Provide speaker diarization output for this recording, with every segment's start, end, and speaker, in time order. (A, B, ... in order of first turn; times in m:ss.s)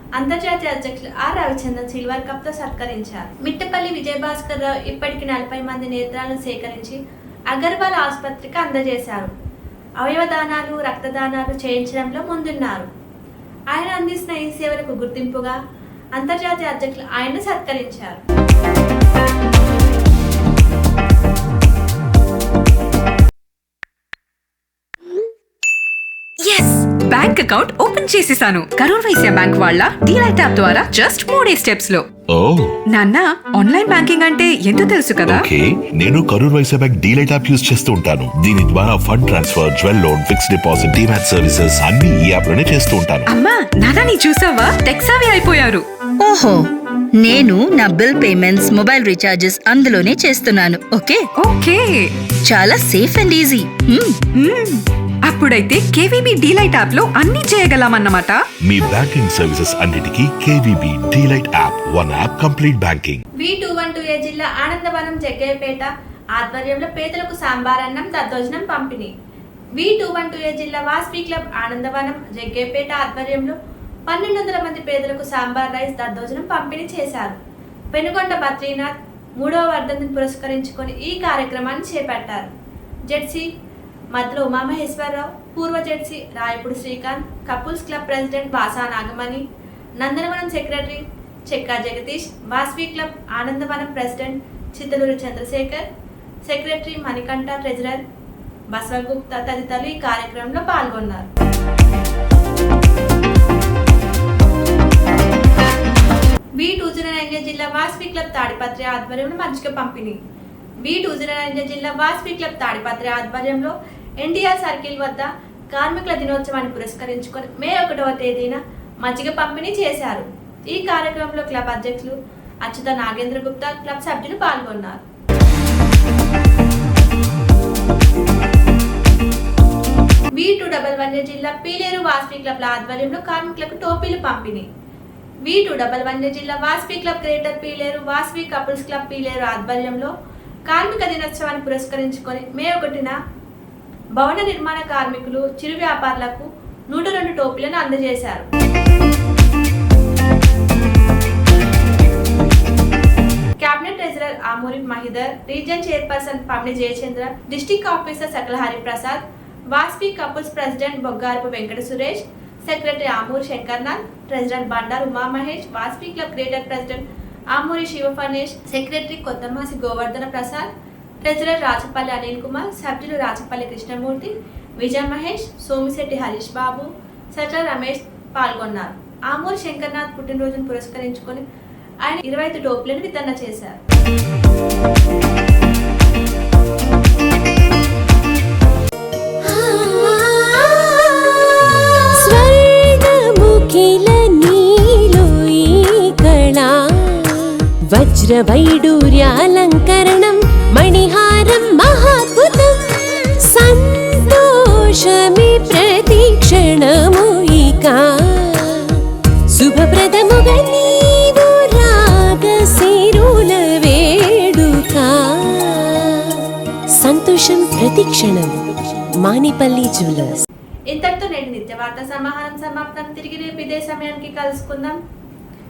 0:00.2-0:07.0 A
0:07.5-0:09.3 A
0:10.0-0:12.9 A
0:13.7-0:15.6 A
0:16.2-0:18.2 A
0:26.4-0:32.0 B
0:32.3-0:32.8 C
0:32.9-0:35.4 B
0:35.2-0:43.3 C
0:43.3-0:45.8 B
0:46.2-0:46.6 D
0:47.2-0:51.2 D
0:51.4-0:52.1 B
0:52.4-0:54.2 D
0:54.4-0:58.4 B
0:58.6-1:03.2 C
1:03.4-1:09.1 A
1:09.8-1:13.6 A
1:14.1-1:17.4 A
1:17.9-1:22.5 A
1:23.1-1:23.4 A
1:24.1-1:29.4 A
1:30.0-1:35.9 A
1:36.4-1:38.0 A
1:38.7-1:41.3 A
1:46.6-1:50.2 A
1:50.8-2:05.0 A
2:10.4-2:14.7 A
2:15.4-2:20.1 A
2:20.7-2:23.2 A
2:24.2-2:28.5 A
2:33.6-2:39.2 A
2:39.7-2:50.7 A
2:51.2-3:01.4 A
3:02.0-3:03.8 A
3:09.5-3:36.5 E
3:37.0-3:40.4 E
3:40.9-3:45.0 A